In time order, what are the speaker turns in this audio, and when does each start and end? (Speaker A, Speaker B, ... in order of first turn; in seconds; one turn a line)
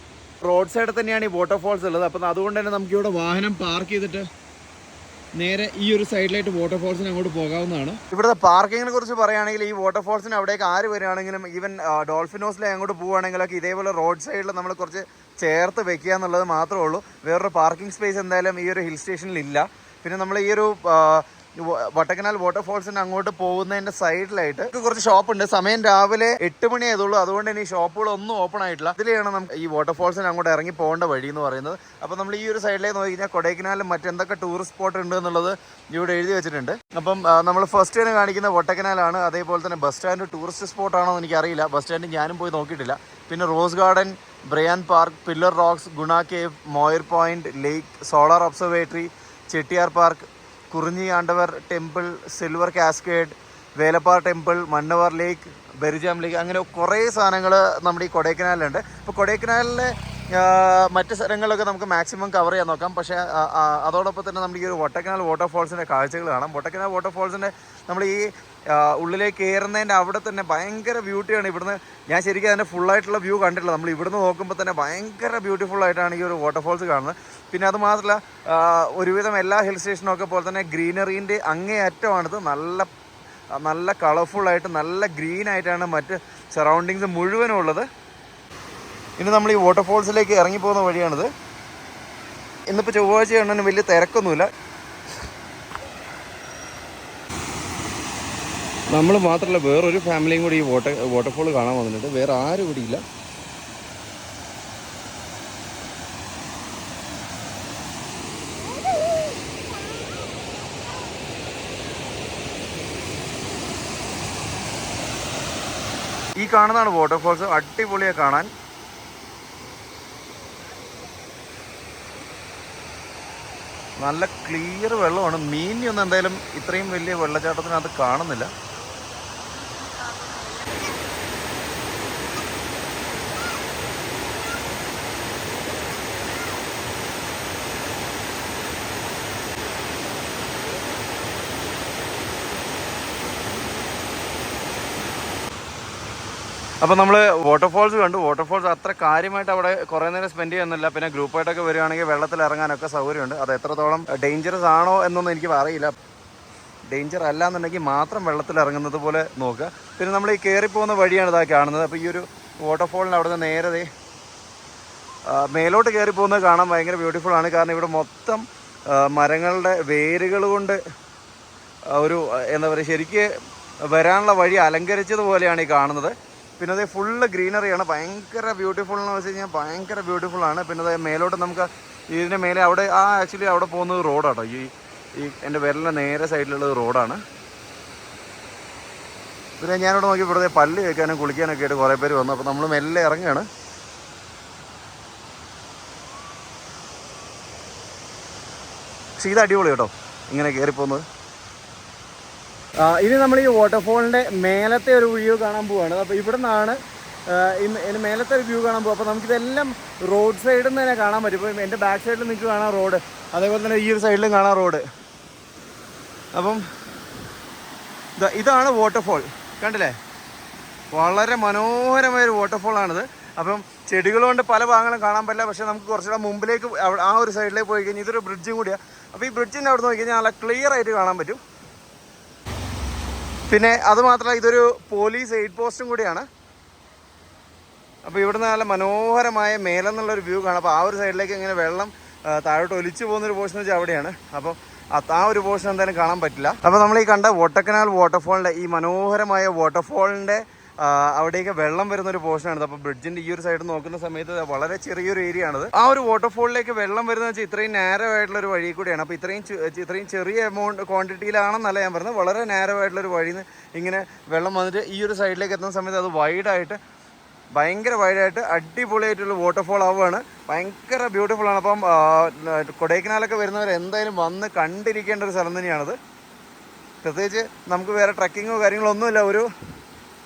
Speaker A: 0.4-4.2
Speaker A: 5.4-82.9
Speaker A: 83.5-87.8
Speaker A: 89.2-91.3
Speaker A: 92.7-94.5
Speaker A: 98.9-103.0
Speaker A: 116.4-118.5
Speaker A: 124.0-128.5
Speaker A: 146.8-155.9
Speaker A: 156.9-163.9
Speaker A: 165.3-170.8
Speaker A: 171.9-173.3
Speaker A: 173.9-187.2
Speaker A: 189.6-193.4
Speaker A: 199.2-201.0
Speaker A: 202.8-214.8
Speaker A: 216.3-216.6
Speaker A: 218.2-219.9
Speaker A: 220.9-231.4
Speaker A: 233.5-236.2
Speaker A: 238.0-266.8
Speaker A: 267.5-276.0
Speaker A: 277.0-279.5